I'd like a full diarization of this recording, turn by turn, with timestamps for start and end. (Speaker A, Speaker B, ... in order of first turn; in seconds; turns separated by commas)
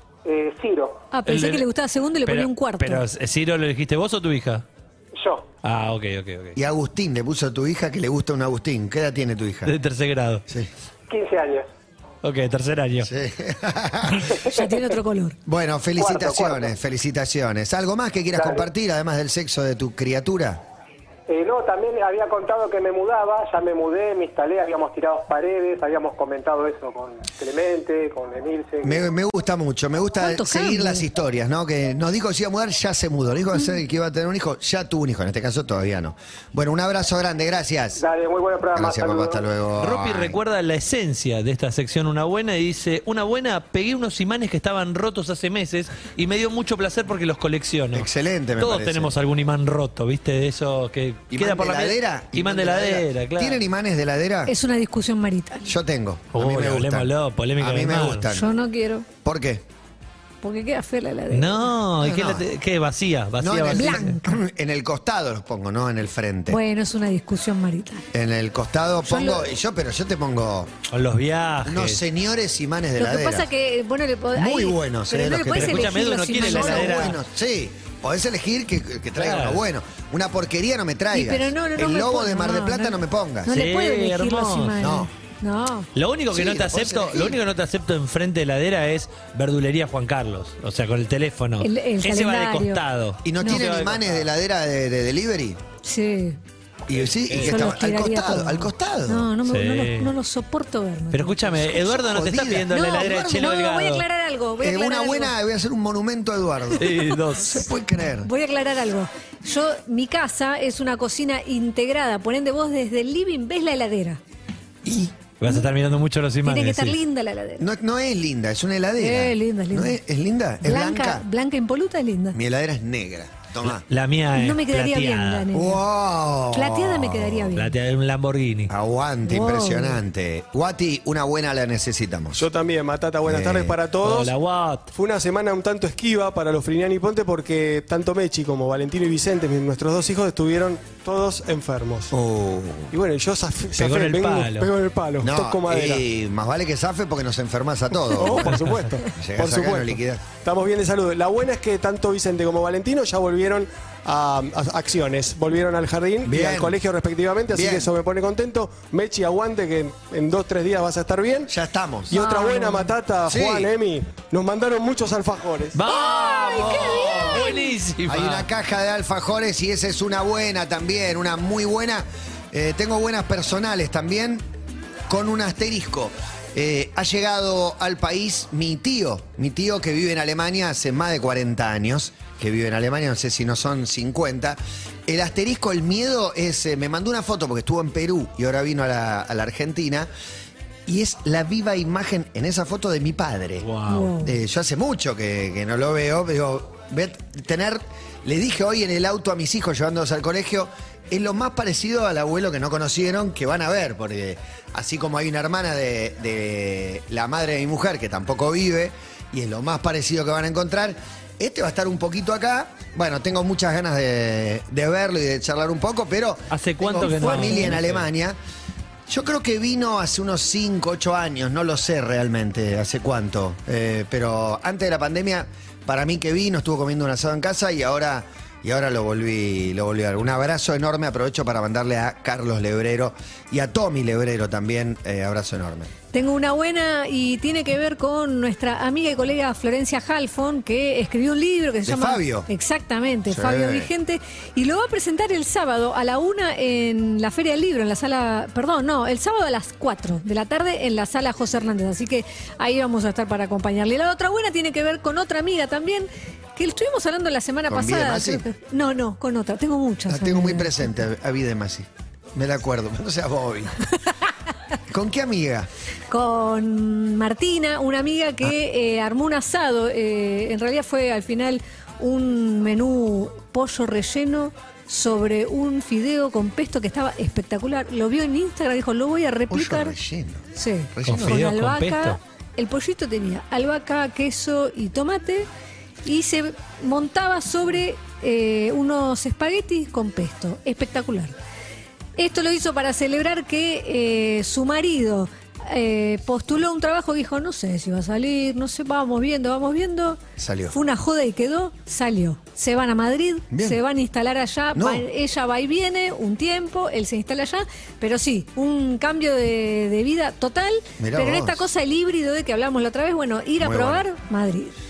Speaker A: 0.2-1.1, Speaker B: 1.1-3.0, Speaker C: 1.3-1.6, Speaker C: 2.2-4.6, Speaker A: 5.1-5.5, Speaker C: 5.6-6.5, Speaker D: 6.5-9.7, Speaker C: 9.7-10.4, Speaker A: 11.1-11.7, Speaker C: 12.2-13.1, Speaker D: 13.0-14.3, Speaker A: 14.3-14.8, Speaker B: 14.4-15.4, Speaker D: 15.4-20.6, Speaker A: 16.0-16.8, Speaker A: 18.3-18.6, Speaker A: 21.3-29.0, Speaker D: 28.8-38.0, Speaker B: 30.2-31.1, Speaker A: 38.0-39.5, Speaker D: 38.7-40.4, Speaker C: 39.8-48.1, Speaker D: 47.9-49.1, Speaker C: 48.6-53.6, Speaker D: 51.3-54.5, Speaker B: 54.5-55.7, Speaker D: 55.6-58.5, Speaker C: 56.3-58.3, Speaker B: 58.3-59.1, Speaker D: 59.2-59.6, Speaker B: 60.4-61.7, Speaker C: 61.3-64.1, Speaker D: 62.0-62.5, Speaker D: 63.4-66.6, Speaker B: 63.7-64.4, Speaker B: 66.5-68.1, Speaker D: 68.1-70.8, Speaker B: 69.0-69.5, Speaker C: 70.9-72.0, Speaker D: 71.6-73.5, Speaker B: 73.0-77.2, Speaker D: 74.3-83.6, Speaker C: 75.5-77.2, Speaker C: 79.2-79.6, Speaker B: 81.1-85.9, Speaker C: 83.5-84.8, Speaker D: 84.8-85.1, Speaker C: 85.9-94.3, Speaker D: 86.3-87.4, Speaker B: 91.6-92.8, Speaker D: 93.2-95.6, Speaker B: 93.4-93.7, Speaker B: 95.8-96.4, Speaker D: 96.9-99.3, Speaker C: 97.3-97.6, Speaker B: 97.3-102.2, Speaker C: 99.5-100.1, Speaker C: 101.1-104.0, Speaker D: 102.0-103.4, Speaker B: 102.7-105.3, Speaker D: 104.6-108.3, Speaker C: 106.8-107.6, Speaker B: 108.2-114.2, Speaker D: 114.8-115.2, Speaker C: 115.4-117.0, Speaker B: 116.4-117.7, Speaker D: 117.6-121.2, Speaker B: 119.0-120.0, Speaker B: 120.6-122.4, Speaker D: 122.3-123.8, Speaker C: 123.6-125.5, Speaker B: 124.3-125.8, Speaker D: 125.5-127.5, Speaker B: 126.5-127.7, Speaker C: 127.5-128.7, Speaker D: 128.7-132.4, Speaker B: 129.2-130.0, Speaker E: 132.4-134.3, Speaker D: 133.2-133.8, Speaker C: 134.0-134.9, Speaker E: 134.9-142.1, Speaker D: 142.1-142.9, Speaker E: 142.9-146.0, Speaker C: 143.8-144.7, Speaker D: 145.2-148.5, Speaker E: 148.2-161.5, Speaker D: 149.2-150.2, Speaker D: 156.2-156.8, Speaker D: 157.5-157.9, Speaker D: 161.5-162.1, Speaker E: 162.1-165.8, Speaker B: 162.1-162.9, Speaker D: 163.3-163.7, Speaker C: 165.7-168.5, Speaker B: 165.9-167.7, Speaker D: 166.3-167.5, Speaker D: 168.1-174.4, Speaker D: 175.1-190.1, Speaker D: 190.9-193.7, Speaker C: 193.6-194.1, Speaker B: 193.9-194.3, Speaker D: 194.2-218.4, Speaker C: 216.5-218.1, Speaker B: 217.0-217.7, Speaker D: 219.1-235.9, Speaker B: 236.1-260.9, Speaker D: 241.8-242.5, Speaker D: 243.3-243.9, Speaker D: 257.7-258.4, Speaker D: 260.1-263.7, Speaker D: 264.9-265.7, Speaker B: 266.1-279.9, Speaker D: 279.5-281.4, Speaker B: 280.6-285.5, Speaker C: 281.1-282.2, Speaker B: 286.0-291.3, Speaker B: 292.2-314.7, Speaker D: 300.4-300.7, Speaker D: 303.5-303.8, Speaker D: 304.7-305.1, Speaker D: 311.0-311.6, Speaker D: 313.6-314.0